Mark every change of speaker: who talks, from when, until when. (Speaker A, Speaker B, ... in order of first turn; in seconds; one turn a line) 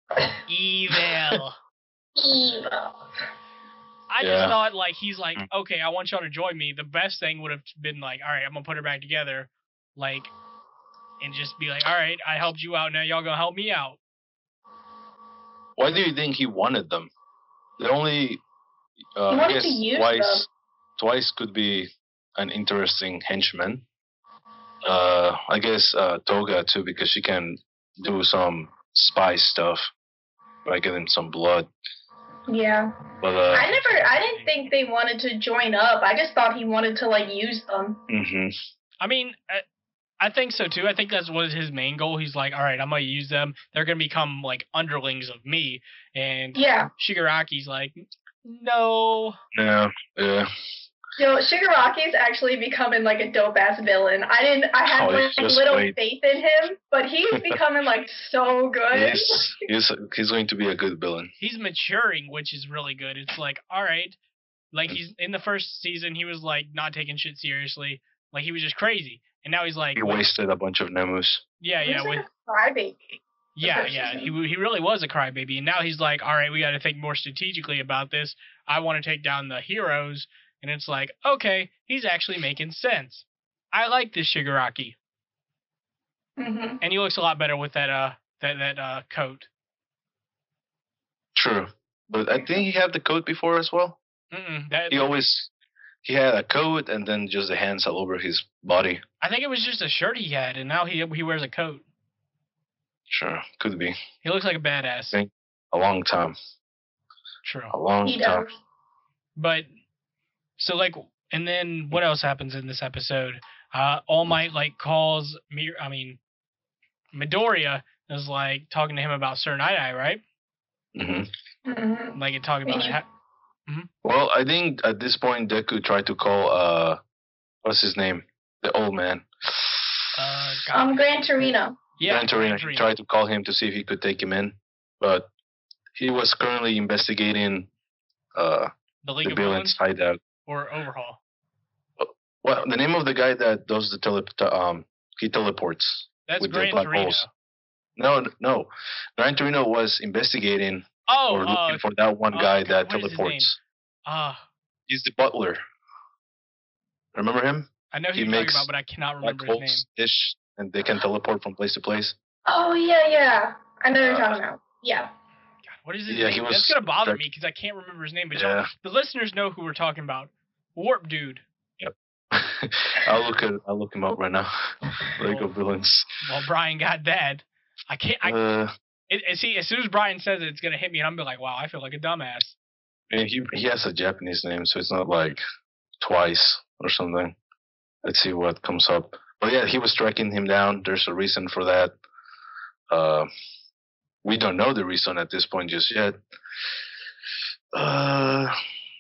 Speaker A: 0.5-1.6
Speaker B: 2.2-3.0
Speaker A: 4.1-10.3
Speaker C: 4.2-4.5
Speaker A: 11.2-14.0
Speaker C: 15.8-17.1
Speaker C: 17.8-18.4
Speaker C: 19.2-23.8
Speaker B: 19.3-20.5
Speaker C: 24.8-29.9
Speaker C: 30.7-31.7
Speaker B: 32.5-38.0
Speaker C: 33.2-33.7
Speaker A: 33.4-34.7
Speaker C: 38.1-38.5
Speaker A: 39.0-39.6
Speaker A: 40.2-49.4
Speaker B: 46.5-46.9
Speaker C: 49.5-50.5
Speaker B: 51.2-59.7
Speaker C: 54.9-55.9
Speaker C: 58.9-61.3
Speaker A: 61.4-64.2
Speaker A: 64.7-70.2
Speaker C: 70.0-71.4
Speaker A: 71.6-72.3
Speaker B: 71.8-74.3
Speaker A: 73.6-85.0
Speaker B: 86.4-86.8
Speaker A: 86.8-89.5
Speaker C: 91.3-94.0
Speaker A: 94.3-95.1
Speaker C: 94.9-95.5
Speaker C: 96.0-99.0
Speaker A: 99.2-101.8
Speaker C: 103.1-104.0
Speaker A: 104.2-105.2
Speaker C: 105.1-106.4
Speaker A: 107.4-107.8
Speaker C: 107.7-108.5
Speaker B: 108.0-108.5
Speaker A: 109.4-109.7
Speaker A: 110.6-116.2
Speaker A: 117.1-120.2
Speaker C: 121.0-121.3
Speaker B: 121.7-123.0
Speaker A: 122.2-123.0
Speaker C: 124.0-127.0
Speaker C: 127.6-130.1
Speaker A: 130.2-131.0
Speaker B: 130.7-131.8
Speaker A: 132.0-132.9
Speaker C: 132.1-135.3
Speaker C: 136.0-137.7
Speaker C: 138.3-138.7
Speaker A: 139.0-139.8
Speaker C: 139.2-140.2
Speaker A: 140.4-141.2
Speaker C: 142.0-147.2
Speaker A: 146.3-147.3
Speaker C: 148.0-153.6
Speaker A: 151.1-154.4
Speaker C: 154.9-155.6
Speaker C: 157.2-158.7
Speaker A: 157.9-159.8
Speaker C: 159.2-162.2
Speaker B: 162.5-165.1
Speaker C: 164.0-164.4
Speaker A: 165.7-171.4
Speaker C: 166.1-167.2
Speaker C: 168.3-168.7
Speaker C: 171.8-174.5
Speaker C: 175.1-176.1
Speaker A: 176.2-178.4
Speaker C: 178.2-178.7
Speaker A: 179.1-182.6
Speaker C: 183.1-185.4
Speaker C: 186.0-187.4
Speaker C: 188.0-191.9
Speaker C: 192.9-193.3
Speaker C: 194.2-196.2
Speaker C: 197.7-198.5